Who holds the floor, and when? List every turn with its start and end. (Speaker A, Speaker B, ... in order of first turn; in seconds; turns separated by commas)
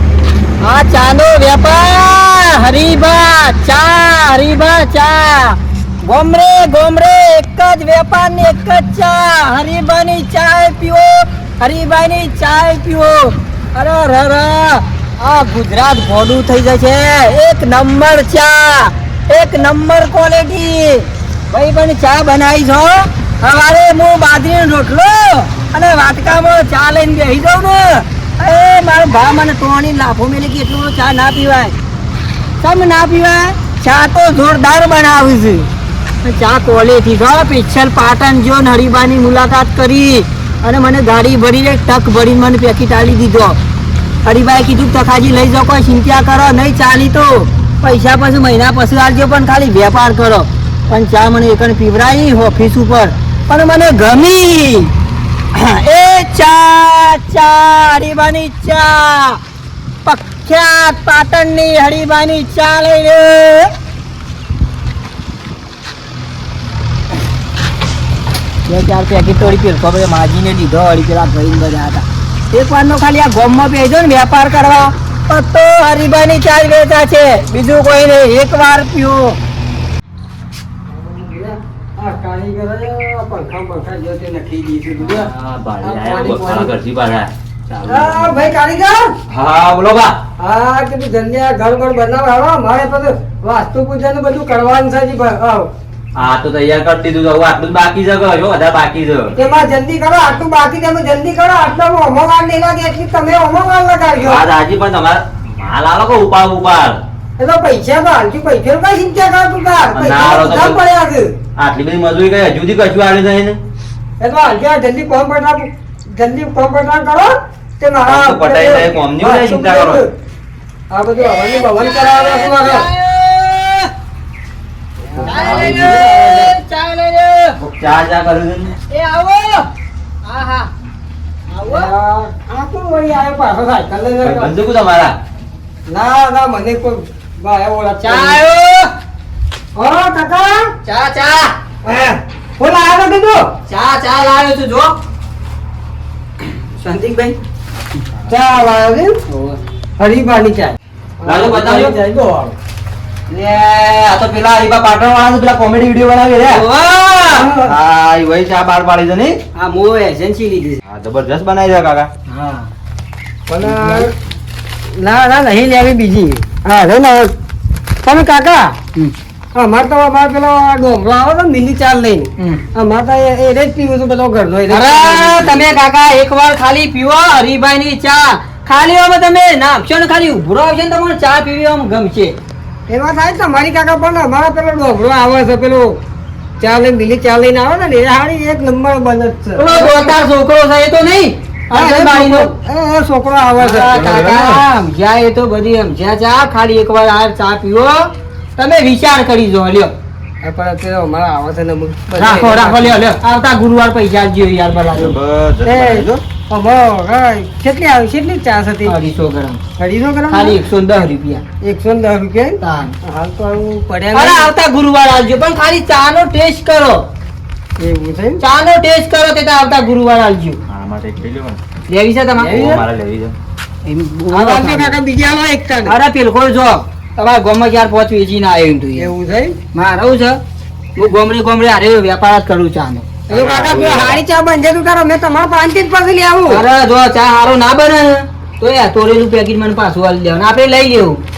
Speaker A: 0.6-31.8, Speaker A: 32.6-35.7, Speaker A: 36.2-43.6, Speaker A: 44.2-54.9, Speaker A: 55.5-59.4, Speaker A: 60.0-63.7, Speaker A: 68.7-79.4, Speaker B: 80.9-85.3, Speaker C: 85.0-88.4, Speaker B: 85.8-86.7, Speaker B: 87.9-89.2, Speaker C: 89.3-90.2, Speaker B: 90.4-95.7, Speaker C: 96.2-99.3, Speaker B: 99.3-104.4, Speaker C: 104.2-107.0, Speaker B: 107.4-111.3, Speaker C: 109.9-110.8, Speaker C: 111.6-113.6, Speaker B: 114.2-120.1, Speaker C: 118.0-120.0, Speaker B: 120.9-122.9, Speaker A: 121.2-123.9, Speaker B: 125.1-126.5, Speaker C: 125.2-126.1, Speaker A: 125.2-127.6, Speaker C: 127.6-128.8, Speaker A: 128.9-129.7, Speaker A: 130.2-130.7, Speaker A: 131.5-131.9, Speaker B: 131.7-134.5, Speaker C: 134.2-135.2, Speaker B: 135.9-138.4, Speaker A: 138.0-138.9, Speaker B: 139.8-140.7, Speaker A: 140.8-141.6, Speaker B: 141.8-143.5, Speaker A: 143.7-144.9, Speaker A: 146.6-147.4, Speaker B: 148.3-149.2, Speaker A: 149.3-149.6, Speaker B: 150.0-152.6, Speaker C: 151.2-152.0, Speaker C: 153.3-156.6, Speaker A: 156.5-157.5, Speaker B: 157.3-157.8, Speaker C: 157.6-159.4, Speaker A: 159.6-160.8, Speaker C: 160.8-162.1, Speaker A: 162.3-162.7, Speaker B: 163.5-164.1, Speaker A: 163.6-164.1, Speaker B: 164.9-167.3, Speaker B: 168.0-168.8, Speaker B: 169.6-175.8, Speaker A: 172.4-172.7, Speaker A: 174.7-182.4, Speaker B: 182.9-186.0, Speaker B: 186.6-190.2, Speaker A: 189.6-192.5, Speaker B: 191.7-194.6, Speaker A: 193.6-199.9, Speaker B: 200.4-203.1, Speaker A: 202.2-205.2, Speaker C: 204.9-206.1, Speaker B: 205.7-208.9, Speaker A: 208.8-209.6, Speaker B: 209.8-210.6, Speaker A: 210.3-211.4, Speaker B: 211.6-214.5, Speaker A: 212.6-213.0, Speaker A: 214.1-217.0, Speaker B: 217.8-218.4, Speaker A: 218.4-220.6, Speaker C: 220.7-221.6, Speaker A: 221.9-222.7, Speaker B: 222.4-222.8, Speaker C: 222.4-223.4, Speaker A: 223.8-225.0, Speaker B: 224.3-225.9, Speaker A: 225.9-229.1, Speaker B: 229.0-229.6, Speaker A: 229.7-230.4, Speaker A: 231.0-233.1, Speaker C: 233.3-234.2, Speaker B: 233.3-236.6, Speaker A: 236.4-241.2